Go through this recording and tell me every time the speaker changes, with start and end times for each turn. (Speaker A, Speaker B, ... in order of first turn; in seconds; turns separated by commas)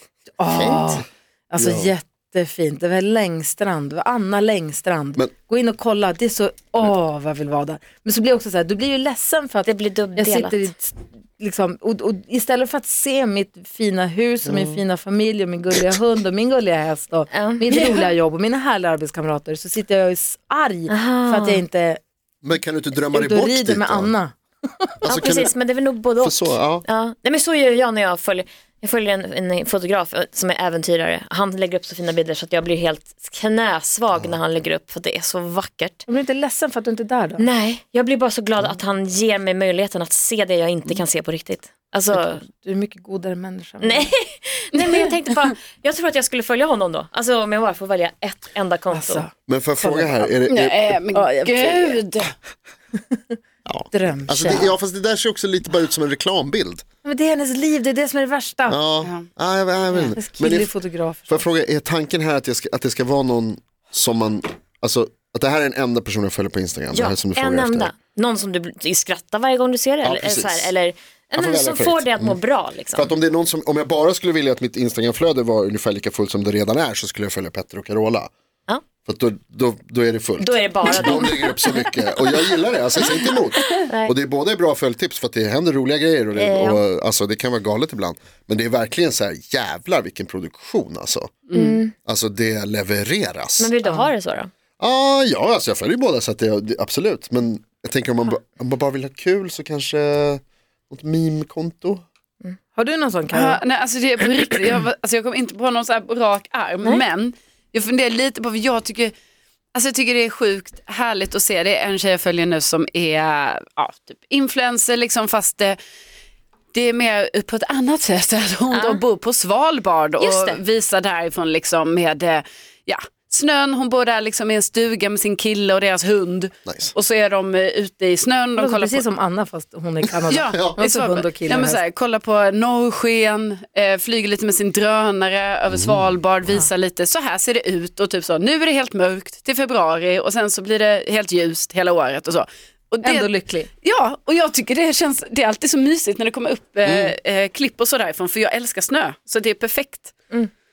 Speaker A: 0.4-22.0, Speaker B: 0.5-0.9, Speaker C: 1.6-1.9, Speaker B: 9.7-10.7, Speaker C: 14.4-14.8, Speaker B: 17.3-17.7, Speaker D: 17.7-18.1, Speaker B: 20.9-21.6, Speaker C: 22.4-24.1, Speaker A: 23.1-25.0, Speaker B: 25.1-36.0, Speaker C: 25.1-25.5, Speaker C: 26.2-26.9, Speaker C: 34.1-34.4, Speaker A: 36.1-37.5, Speaker B: 37.4-42.5, Speaker A: 42.1-44.1, Speaker B: 43.8-49.2, Speaker A: 48.9-50.3, Speaker C: 49.5-51.0, Speaker D: 50.5-52.3, Speaker A: 51.1-52.0, Speaker C: 53.6-56.8, Speaker A: 53.9-54.8, Speaker A: 57.0-58.8, Speaker C: 58.7-60.8, Speaker A: 60.0-61.5, Speaker C: 61.3-67.9, Speaker B: 66.9-73.1, Speaker C: 70.0-70.7, Speaker C: 71.3-72.4, Speaker C: 72.9-78.3, Speaker C: 79.0-91.4, Speaker B: 80.4-81.6, Speaker B: 83.9-84.1, Speaker B: 86.4-86.8, Speaker D: 91.5-91.7, Speaker B: 91.5-92.0, Speaker C: 92.0-93.7, Speaker B: 93.6-94.5, Speaker A: 93.8-94.1, Speaker C: 94.8-102.0, Speaker A: 102.7-103.6, Speaker D: 103.3-109.1, Speaker D: 109.7-115.8, Speaker D: 116.7-129.0, Speaker B: 118.7-119.0, Speaker B: 120.2-120.6, Speaker C: 126.7-126.9, Speaker A: 128.6-131.8, Speaker D: 130.3-143.3, Speaker C: 135.7-136.1, Speaker A: 143.0-143.7, Speaker D: 143.8-150.1, Speaker C: 146.8-147.1